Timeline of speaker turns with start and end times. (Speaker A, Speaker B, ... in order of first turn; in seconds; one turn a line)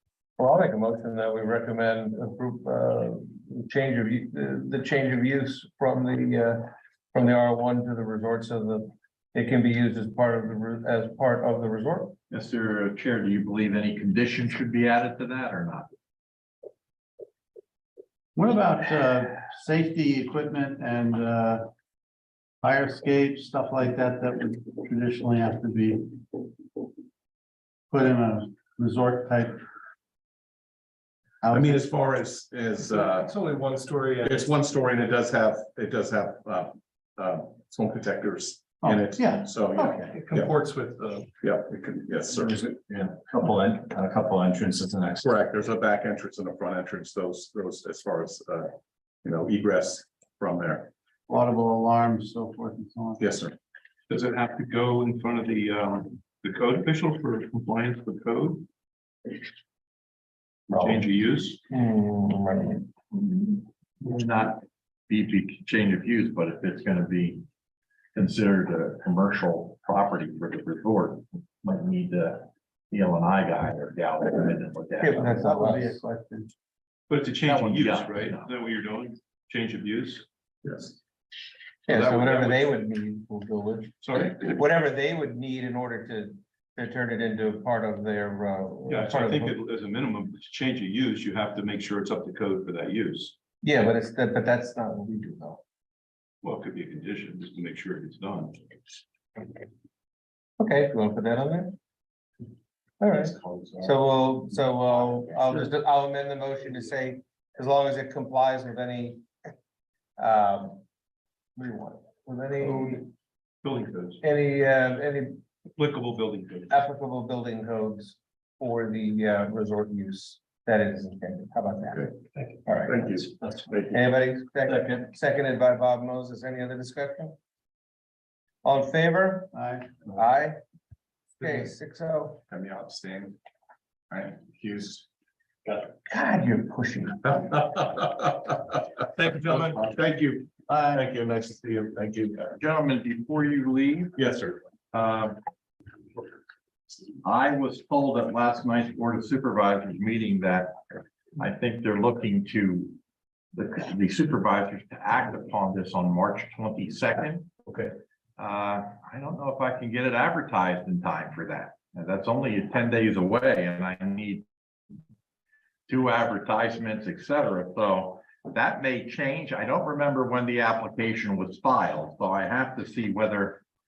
Speaker A: 0.4-12.2
Speaker B: 12.3-15.9
Speaker C: 18.3-21.6
Speaker C: 22.6-26.2
Speaker C: 27.9-29.6
Speaker C: 31.4-31.8
Speaker D: 31.5-33.3
Speaker E: 32.9-34.5
Speaker D: 34.2-40.5
Speaker C: 38.8-40.1
Speaker E: 39.9-41.1
Speaker D: 41.4-42.6
Speaker F: 42.3-45.3
Speaker D: 45.2-48.7
Speaker D: 49.2-50.9
Speaker C: 51.3-53.2
Speaker D: 53.2-53.5
Speaker E: 54.1-58.6
Speaker E: 60.7-61.6
Speaker A: 61.7-62.9
Speaker B: 63.1-67.5
Speaker B: 68.1-75.4
Speaker A: 75.0-76.0
Speaker C: 75.2-76.5
Speaker E: 77.1-80.2
Speaker B: 77.4-78.5
Speaker D: 80.6-81.0
Speaker A: 81.9-89.5
Speaker E: 81.9-82.7
Speaker E: 84.0-84.6
Speaker E: 88.9-93.3
Speaker A: 93.6-95.6
Speaker E: 96.4-98.6
Speaker A: 100.6-101.8
Speaker A: 103.0-109.2
Speaker A: 110.2-110.8
Speaker A: 111.5-113.1
Speaker E: 113.6-114.2
Speaker A: 114.2-115.4
Speaker E: 115.8-116.8
Speaker A: 116.7-122.1
Speaker D: 121.9-123.9
Speaker A: 122.7-123.0
Speaker F: 123.4-123.9
Speaker A: 123.9-127.3
Speaker F: 124.6-125.1
Speaker A: 128.6-130.6
Speaker C: 129.5-130.1
Speaker A: 131.4-132.4
Speaker D: 132.5-133.3
Speaker D: 134.1-135.1
Speaker A: 136.1-137.6
Speaker D: 137.3-138.5
Speaker D: 139.2-142.5
Speaker C: 140.7-141.1
Speaker B: 142.6-144.1
Speaker D: 144.2-144.6
Speaker B: 144.9-145.4
Speaker B: 147.2-150.8
Speaker B: 151.4-153.0
Speaker B: 153.5-157.5
Speaker B: 158.4-164.4
Speaker B: 165.9-173.6